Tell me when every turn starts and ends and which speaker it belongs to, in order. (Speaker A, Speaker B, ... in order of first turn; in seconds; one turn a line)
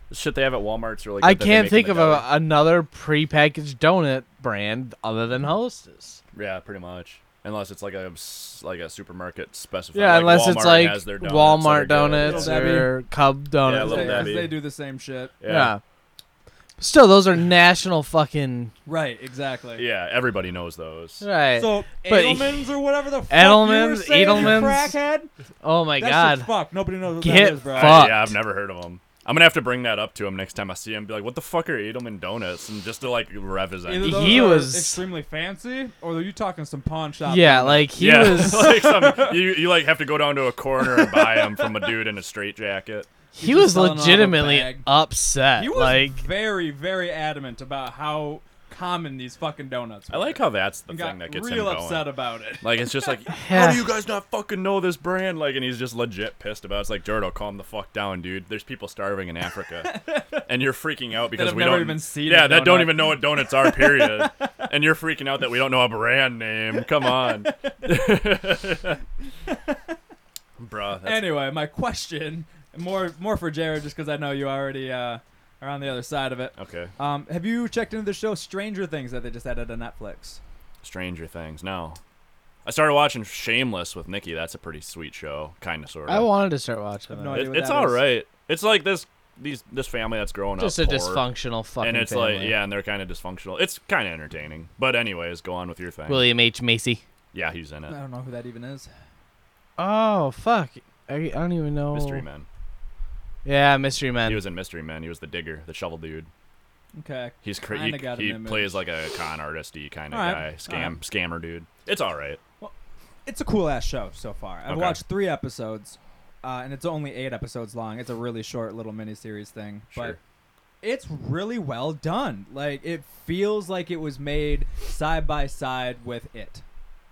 Speaker A: 0.1-2.2
Speaker B: 1.2-6.2
Speaker A: 6.3-12.8
Speaker B: 9.9-14.3
Speaker C: 12.2-13.0
Speaker A: 13.6-14.6
Speaker C: 13.7-15.3
Speaker A: 15.4-15.7
Speaker B: 15.5-15.8
Speaker B: 16.8-18.7
Speaker C: 18.9-19.8
Speaker A: 19.8-21.2
Speaker B: 21.2-22.7
Speaker C: 21.6-25.3
Speaker B: 23.3-24.9
Speaker B: 25.6-26.5
Speaker C: 26.0-28.2
Speaker B: 27.2-28.4
Speaker A: 27.7-34.5
Speaker C: 33.9-39.3
Speaker B: 34.0-35.0
Speaker B: 37.3-38.9
Speaker A: 38.0-43.1
Speaker C: 41.0-41.6
Speaker B: 43.3-46.2
Speaker C: 43.4-44.9
Speaker C: 45.6-53.1
Speaker A: 50.1-52.1
Speaker A: 52.6-59.9
Speaker B: 53.4-53.9
Speaker C: 59.8-60.4
Speaker A: 60.5-69.0
Speaker C: 61.3-64.5
Speaker C: 67.0-67.7
Speaker C: 69.5-69.8
Speaker A: 70.6-71.3
Speaker C: 71.0-80.4
Speaker A: 76.6-76.9
Speaker A: 80.8-82.0
Speaker A: 82.7-86.3
Speaker B: 86.1-87.5
Speaker C: 87.1-88.1
Speaker A: 87.3-91.2
Speaker B: 90.6-92.6
Speaker A: 91.8-96.3
Speaker B: 96.1-97.0
Speaker A: 97.3-98.0
Speaker C: 97.9-98.9
Speaker B: 99.8-102.2
Speaker A: 101.9-102.5
Speaker B: 103.5-104.4
Speaker A: 104.2-106.3
Speaker C: 107.0-108.8
Speaker A: 107.4-112.4
Speaker C: 110.1-111.0
Speaker C: 113.3-120.2
Speaker A: 114.7-115.0
Speaker A: 119.9-120.2
Speaker C: 120.8-126.6